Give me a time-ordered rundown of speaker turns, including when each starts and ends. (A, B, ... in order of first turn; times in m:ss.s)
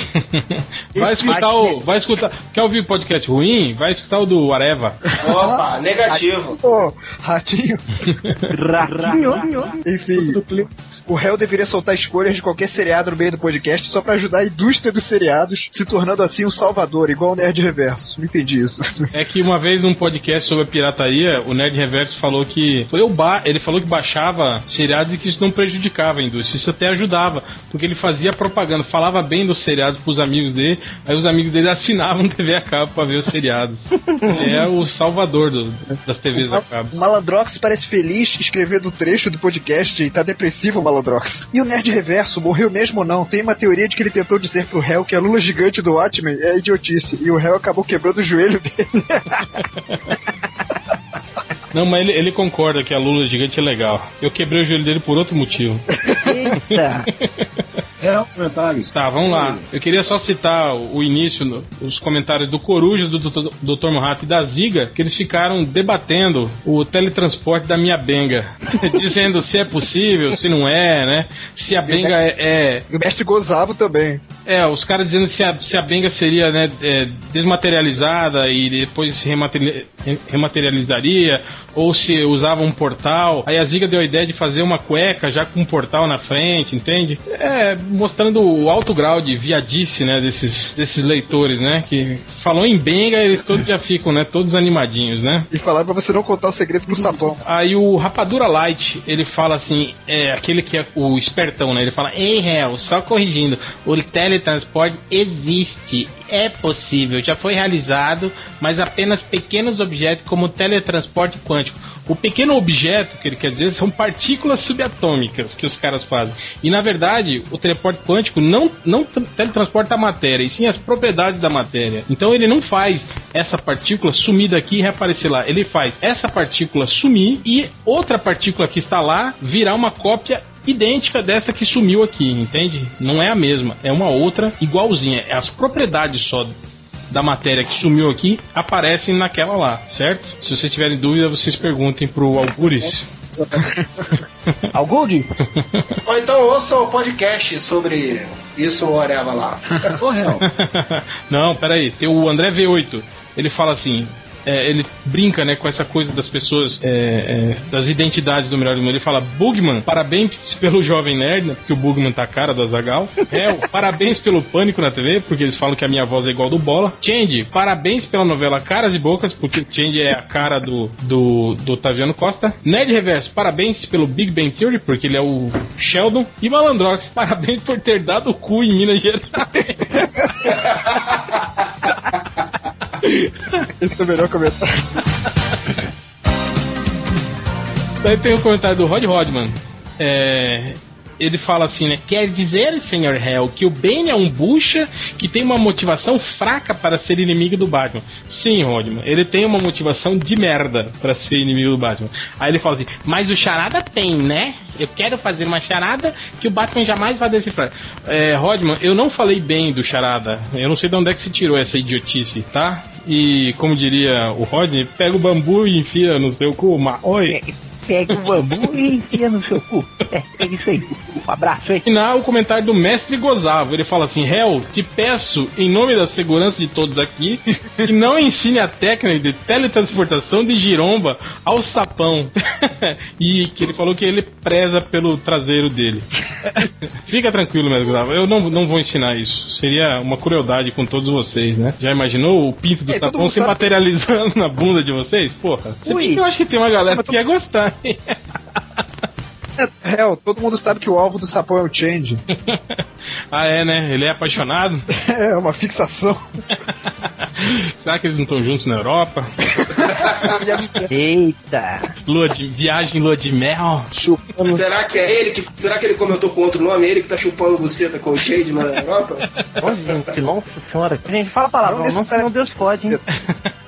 0:00.1-0:05.0 A
0:01.0-0:01.8 B
0:05.1-0:07.8 B
0:05.2-0:06.6 C
0:08.1-0:08.4 A
0:08.5-0:09.8 D
0:09.0-0:10.4 B
0:10.2-0:11.0 E
0:11.1-0:19.1 B
0:19.1-0:36.9 A
0:34.2-0:34.6 D
0:36.4-0:49.5 B
0:49.6-0:50.0 A
0:51.7-0:55.8 A
0:56.0-0:56.4 B
0:56.2-0:57.1 D
0:56.7-0:57.6 A
0:58.0-0:59.6 E
0:58.9-1:12.9 A
1:11.8-1:12.2 E
1:12.9-1:14.2 B
1:14.5-1:35.5 A
1:35.5-1:37.4 B
1:36.9-2:16.5 A
2:17.1-2:23.1 A
2:22.4-2:24.2 E
2:24.7-2:25.3 D
2:25.6-2:25.9 A
2:26.0-2:30.0 C
2:29.9-2:30.4 E
2:30.4-3:00.6 A
3:03.8-3:04.8 B
3:08.0-3:37.4 A
3:37.3-3:41.8 D
3:38.1-3:38.8 A
3:41.8-4:08.2 A
4:02.9-4:03.6 B
4:05.9-4:06.2 D
4:06.9-4:07.2 B
4:09.6-4:12.2 B
4:12.3-4:14.8 A
4:15.0-4:16.2 B
4:16.7-4:19.3 A
4:19.6-4:20.9 B
4:20.9-4:21.9 D
4:22.1-4:23.9 A
4:23.9-4:24.6 E
4:24.5-4:29.3 C
4:29.6-4:33.0 D
4:31.7-4:33.0 B